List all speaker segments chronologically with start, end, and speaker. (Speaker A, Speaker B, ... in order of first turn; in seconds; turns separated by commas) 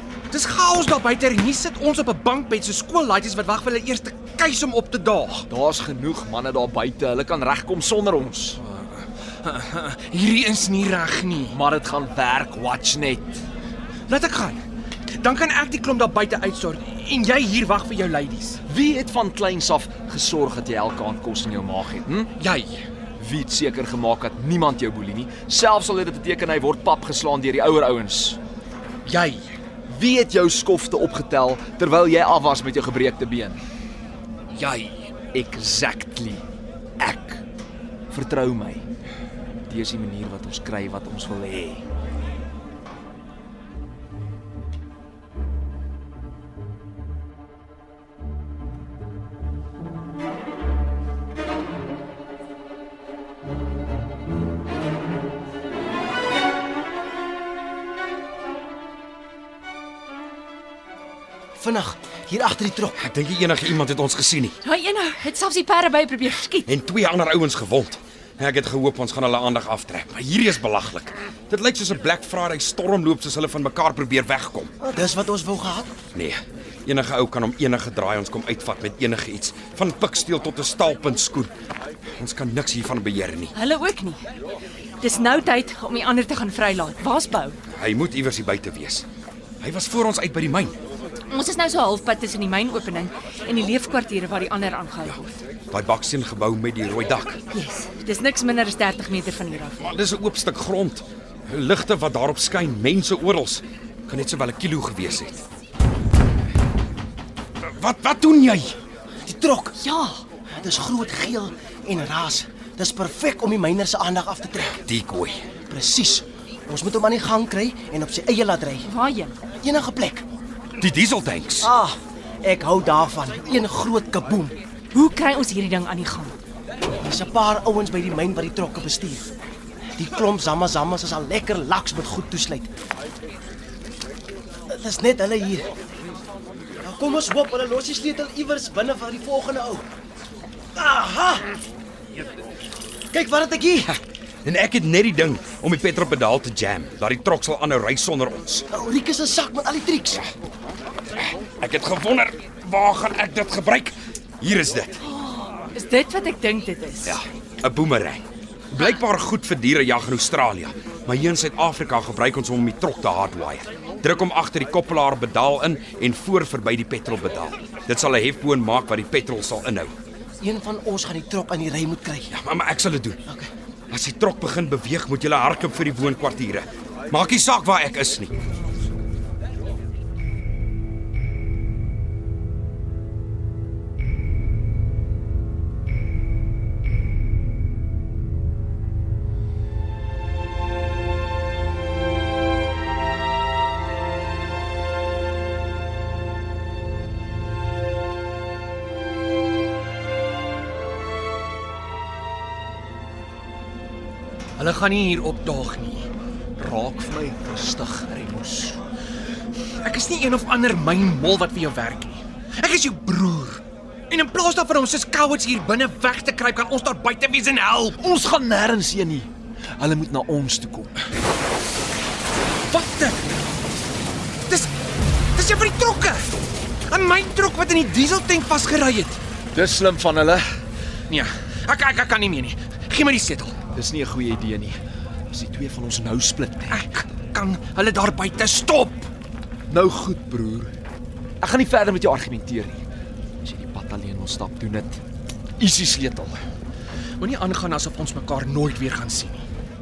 Speaker A: 0.3-5.5, Speaker B: 5.5-8.6, Speaker A: 8.6-11.6, Speaker B: 11.5-13.3, Speaker A: 14.1-18.6, Speaker B: 18.6-22.3, Speaker A: 22.4-22.8, Speaker B: 23.2-28.4, Speaker A: 29.0-29.5, Speaker B: 29.9-33.6, Speaker A: 34.5-35.1, Speaker B: 35.2-36.4, Speaker B: 37.0-37.4, Speaker B: 38.1-38.9, Speaker B: 39.7-41.8, Speaker C: 61.5-63.0, Speaker D: 63.0-64.6, Speaker E: 64.6-66.7, Speaker D: 66.7-74.7, Speaker C: 74.8-75.9, Speaker D: 76.1-81.5, Speaker D: 82.2-83.5, Speaker E: 83.5-84.2, Speaker E: 85.0-87.6, Speaker D: 87.7-89.0, Speaker D: 89.6-90.7, Speaker E: 91.3-95.4, Speaker D: 95.7-97.4, Speaker E: 97.5-99.8, Speaker D: 99.8-105.4, Speaker D: 107.6-108.7, Speaker C: 109.2-109.8, Speaker E: 109.8-110.2, Speaker C: 110.5-114.7, Speaker D: 114.8-115.4, Speaker C: 115.7-118.9, Speaker E: 118.8-119.3, Speaker C: 119.6-120.2, Speaker D: 120.8-121.7, Speaker C: 121.6-124.5, Speaker E: 124.9-126.3, Speaker C: 127.0-129.3, Speaker C: 130.0-132.7, Speaker C: 134.7-135.7, Speaker C: 136.8-139.8, Speaker C: 140.7-141.4, Speaker C: 143.1-143.9, Speaker D: 143.9-148.7, Speaker C: 148.7-150.2, Speaker D: 151.4-155.0, Speaker E: 155.0-157.2, Speaker D: 157.0-169.9, Speaker C: 170.4-172.3, Speaker D: 172.3-173.2, Speaker D: 173.9-178.3, Speaker A: 204.6-206.1, Speaker B: 206.6-208.8, Speaker A: 209.8-218.0, Speaker B: 217.9-220.9, Speaker A: 222.7-223.2, Speaker A: 225.3-226.3, Speaker A: 226.9-229.2, Speaker B: 229.5-230.5, Speaker A: 231.1-233.6, Speaker B: 233.7-234.8, Speaker B: 235.3-236.8, Speaker A: 236.7-239.1, Speaker B: 239.7-240.7, Speaker B: 241.4-242.8, Speaker B: 243.4-245.0, Speaker B: 245.6-246.4, Speaker A: 247.2-249.4